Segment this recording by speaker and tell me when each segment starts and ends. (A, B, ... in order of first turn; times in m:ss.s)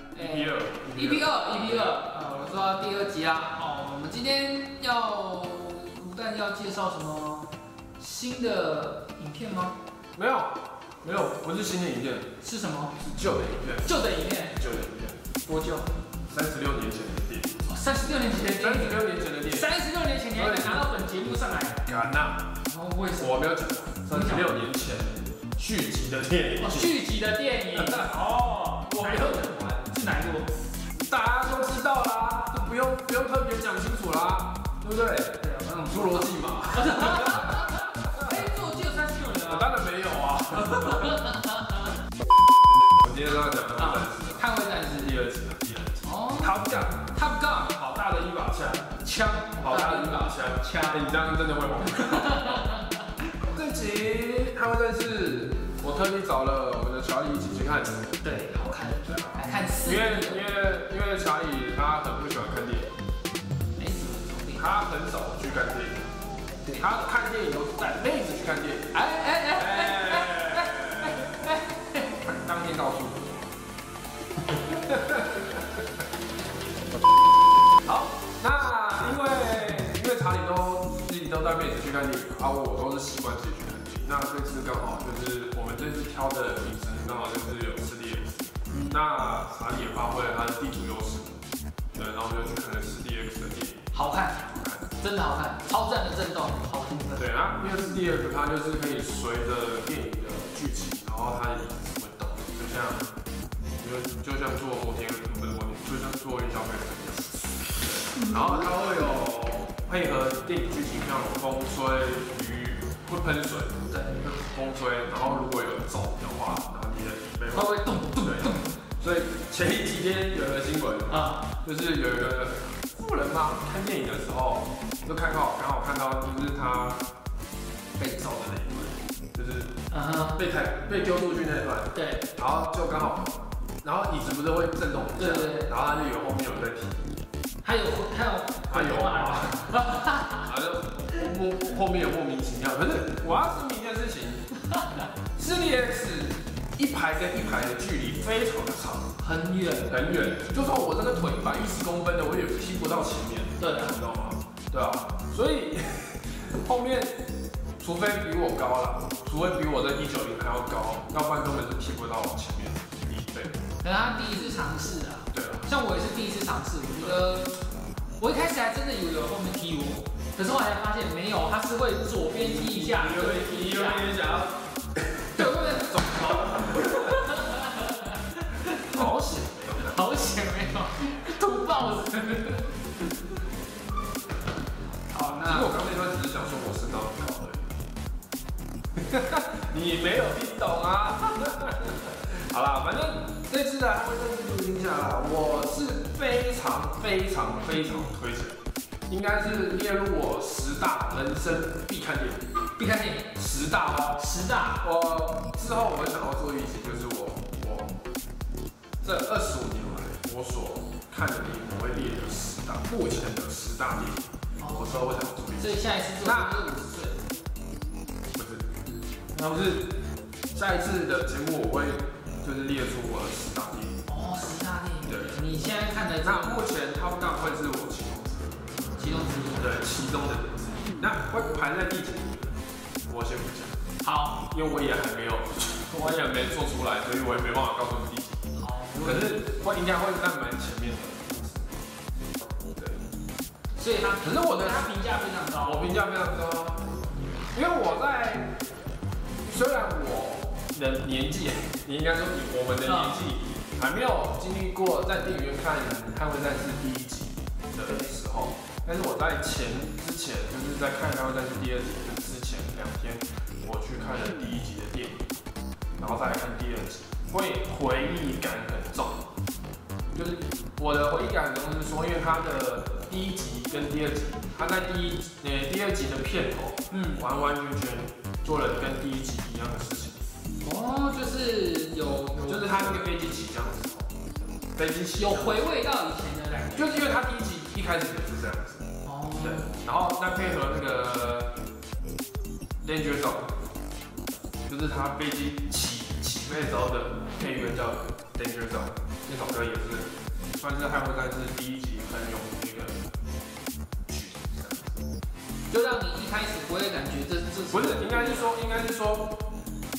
0:00.1-0:09.8 A
0:00.2-0:02.2 B
0:10.2-0:12.3 B
0:12.4-0:13.0 A
0:13.0-0:15.2 B
0:13.8-0:14.7 A
0:15.4-0:15.9 A
0:16.3-0:17.7 B
0:17.7-0:21.8 A
0:18.3-0:19.7 B
0:20.3-0:20.8 B
0:21.8-0:22.6 B
0:22.6-0:23.5 A
0:23.2-0:27.0 B
0:24.1-0:24.5 A
0:26.6-0:30.5 A
0:27.7-0:29.9 B
0:31.0-0:38.4 B
0:35.3-0:39.8 A
0:39.4-0:41.3 B
0:40.6-0:41.9 A
0:43.0-0:52.7 B
0:43.8-0:45.2 A
0:46.0-0:46.6 A
0:49.0-0:51.2 A
0:51.8-0:53.0 A
0:53.4-0:58.1 B
0:58.2-1:00.4 A
0:59.8-1:02.9 B
1:03.8-1:04.7 A
1:04.6-1:06.0 B
1:06.6-1:07.0 A
1:06.8-1:11.5 B
1:08.9-1:12.1 A
1:12.1-1:13.5 B
1:14.7-1:15.8 B
1:17.8-1:31.4 B
1:28.7-1:29.0 A
1:31.9-1:33.9 B
1:33.9-1:34.5 A
1:34.5-1:34.9 B
1:35.0-1:38.0 A
1:37.2-1:43.1 B
1:43.8-2:07.0 B
1:47.9-1:49.1 A
1:53.9-1:54.2 A
1:57.5-1:58.7 A
2:01.1-2:01.5 A
2:08.0-2:09.7 B
2:09.9-2:10.4 A
2:10.4-2:17.1 B
2:11.9-2:12.3 A
2:15.2-2:15.7 A
2:17.6-2:20.5 A
2:18.7-2:19.6 B
2:20.4-2:24.5 B
2:25.4-2:29.1 B
2:29.2-2:30.2 A
2:29.9-2:37.2 B
2:33.6-2:34.0 A
2:37.8-2:43.6 B
2:43.8-2:47.5 A
2:45.3-2:45.7 B
2:46.9-2:47.2 B
2:48.2-2:54.1 A
2:52.3-2:57.2 B
2:55.3-2:59.1 A
2:58.8-3:00.1 B
2:59.8-3:03.4 A
3:05.1-3:05.8 A
3:05.4-3:07.7 B
3:09.0-3:18.6 B
3:19.1-3:22.5 B
3:22.7-3:23.3 A
3:23.4-3:24.3 B
3:24.2-3:24.8 A
3:24.8-3:28.0 B
3:29.0-3:36.6 B
3:34.6-3:37.2 A
3:38.3-3:38.7 B
3:39.3-3:40.0 B
3:40.5-3:44.0 B
3:44.1-3:46.6 A
3:45.0-3:45.4 B
3:46.2-3:48.8 B
3:49.0-3:49.8 A
3:49.6-3:53.8 B
3:54.0-3:54.4 A
3:54.4-3:58.4 B
3:58.6-3:59.5 A
3:59.0-4:01.9 B
4:02.8-4:03.0 B
4:03.8-4:05.9 A
4:04.2-4:05.0 B
4:05.6-4:06.9 B
4:07.5-4:08.6 B
4:09.4-4:25.2 B
4:12.8-4:13.2 A
4:17.8-4:18.1 A
4:26.0-4:29.3 B
4:30.1-4:40.2 B
4:36.9-4:37.2 A
4:40.6-4:43.0 A
4:42.5-4:44.1 B
4:44.8-4:45.6 B
4:45.2-4:47.1 A
4:46.7-4:48.9 B
4:49.0-4:49.7 A
4:49.4-4:51.6 B
4:52.8-4:53.5 B
4:54.7-5:03.0 B
5:04.1-5:05.0 B
5:05.7-5:08.6 A
5:07.7-5:09.4 B